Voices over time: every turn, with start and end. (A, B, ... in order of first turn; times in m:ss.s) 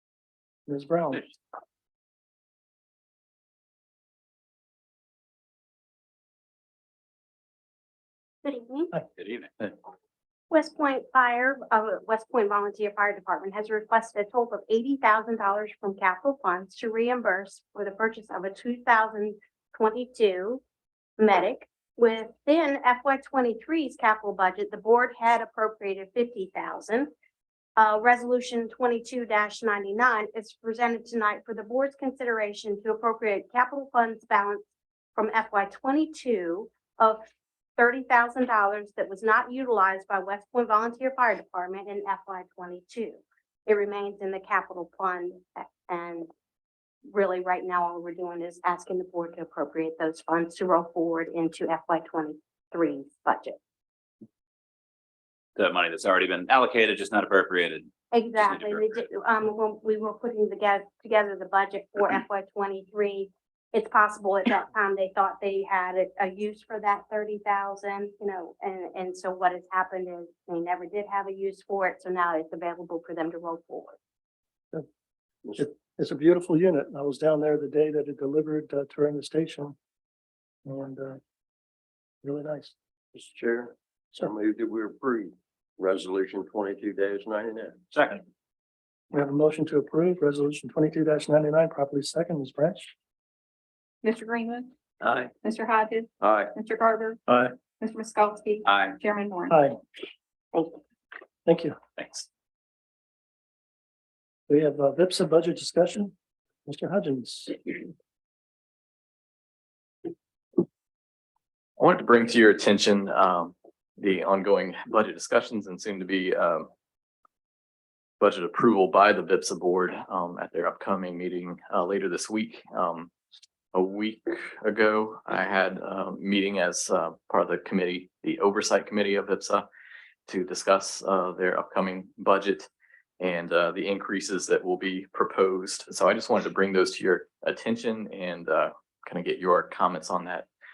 0:00.7-0:01.3 A
0:08.4-0:09.0 B
0:09.2-0:09.5 C
0:10.5-0:20.6 B
0:21.2-0:27.1 B
0:27.8-0:37.2 B
0:37.8-0:46.3 B
0:47.0-0:53.6 B
0:55.6-0:57.9 C
0:58.1-1:14.0 B
0:58.4-0:58.8 C
1:15.6-1:19.7 A
1:20.6-1:21.2 A
1:22.2-1:22.7 A
1:23.1-1:23.5 D
1:24.6-1:25.2 D
1:25.8-1:27.7 D
1:29.1-1:32.9 A
1:34.0-1:34.7 E
1:35.4-1:37.2 E
1:37.8-1:39.6 E
1:38.6-1:39.0 C
1:39.5-1:39.8 A
1:41.4-1:41.8 A
1:44.5-1:46.1 A
1:46.6-1:47.8 A
1:51.8-1:56.7 F
1:58.2-2:03.1 F
2:03.7-2:09.6 F
2:10.3-2:20.5 F